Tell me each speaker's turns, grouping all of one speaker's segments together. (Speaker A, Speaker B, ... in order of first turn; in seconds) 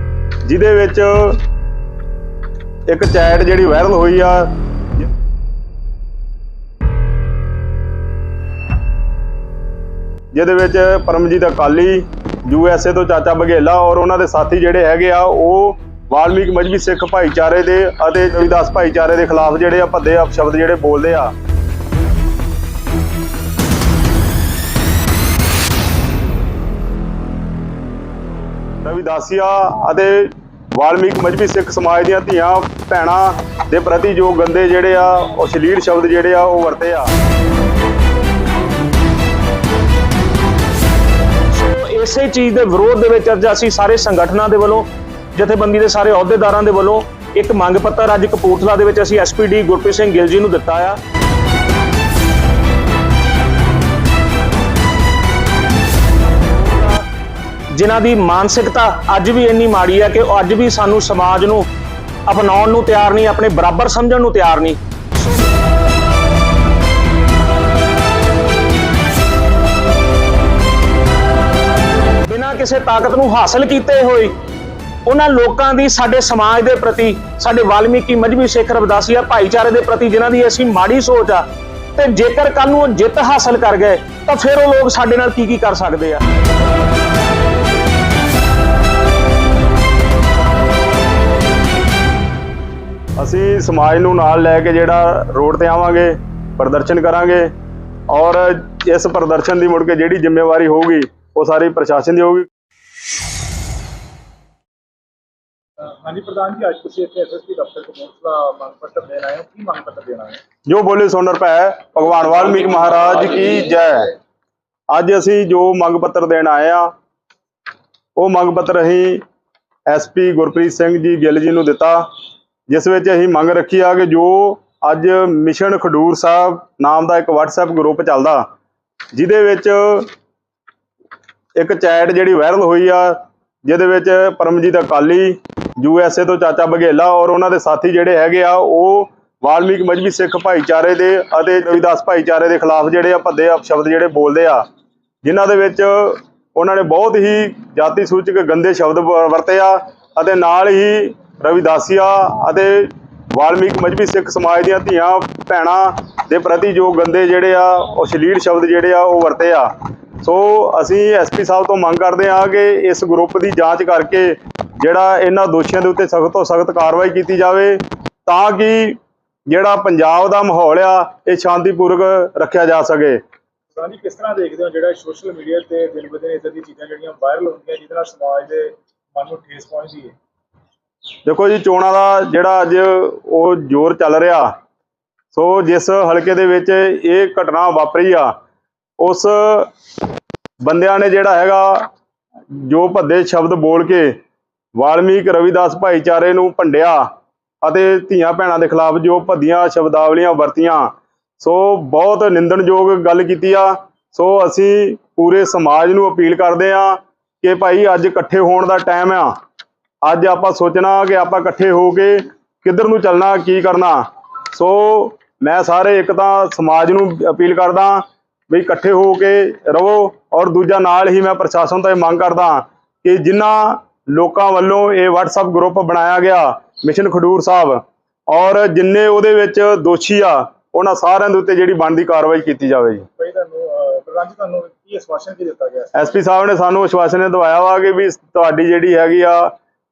Speaker A: 0.4-1.4, 2.9-4.5, 10.3-21.3, 28.8-37.1, 93.2-97.5, 98.1-102.5, 110.7-114.1, 114.9-116.9, 118.2-119.2, 119.9-122.1, 122.7-128.4, 129.1-130.1, 131.6-144.6, 145.2-159.7, 160.2-173.2, 181.2-184.5, 185.3-188.3, 189.0-189.7, 190.6-191.9, 192.5-194.2, 194.8-197.1, 197.6-209.3, 210.0-233.1, 235.9-239.5
Speaker B: 41.5-51.0, 56.7-57.0, 57.7-61.7, 62.3-65.5, 72.2-74.3, 75.0-86.2
Speaker C: 105.8-110.4, 173.8-180.1, 233.2-236.0